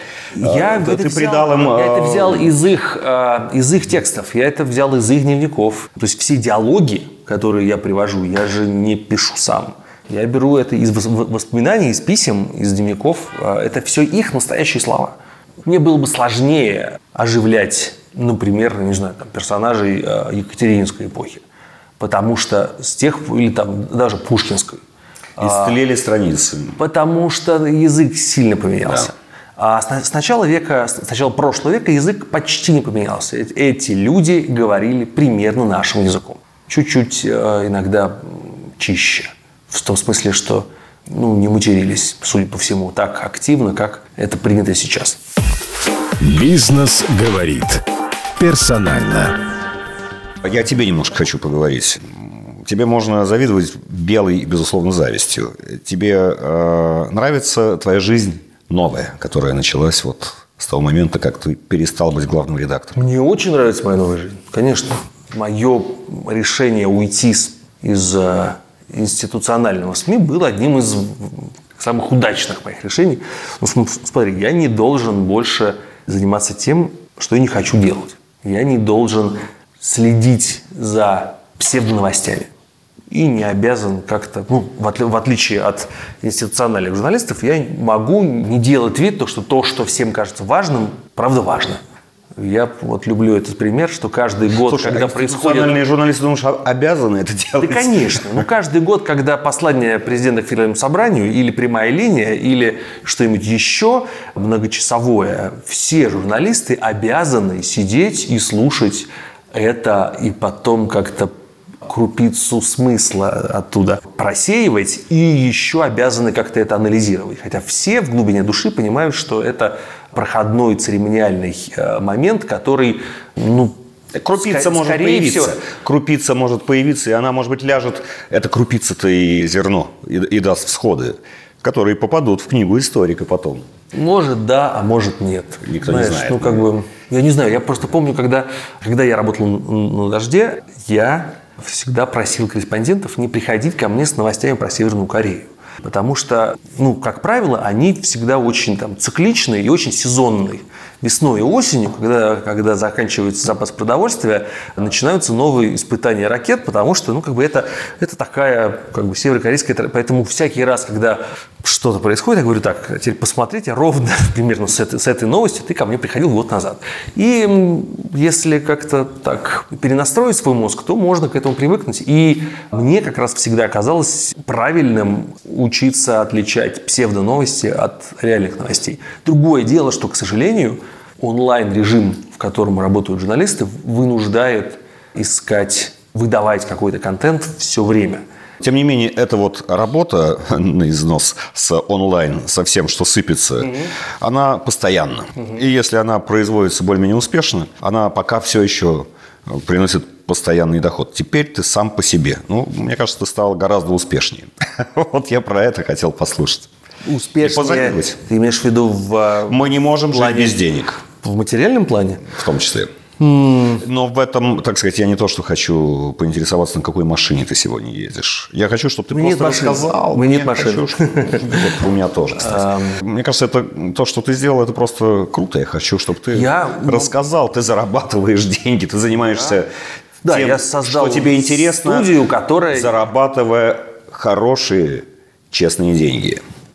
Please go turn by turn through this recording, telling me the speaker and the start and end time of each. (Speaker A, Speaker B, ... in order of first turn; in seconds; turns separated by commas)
Speaker A: 0.3-21.4, Speaker B: 0.4-2.5, Speaker A: 22.0-24.8, Speaker A: 25.4-25.8, Speaker B: 25.4-26.8, Speaker A: 26.8-45.2, Speaker C: 46.2-47.8, Speaker C: 48.4-49.4, Speaker B: 50.4-63.0, Speaker A: 62.9-82.5, Speaker A: 83.1-91.8, Speaker A: 92.4-95.7, Speaker B: 94.6-98.4, Speaker A: 97.6-111.3, Speaker A: 111.8-123.8, Speaker B: 124.1-133.6, Speaker A: 124.3-125.6, Speaker A: 133.9-188.2, Speaker B: 135.6-136.7, Speaker B: 188.6-206.7, Speaker A: 193.6-193.9, Speaker A: 207.1-212.3, Speaker B: 207.4-208.2, Speaker B: 209.5-211.0, Speaker B: 212.3-212.9, Speaker A: 213.2-213.8, Speaker B: 213.8-229.7, Speaker A: 219.1-221.7, Speaker A: 222.4-223.0, Speaker A: 226.3-227.1, Speaker A: 230.2-232.9, Speaker B: 230.3-232.1, Speaker B: 232.7-236.4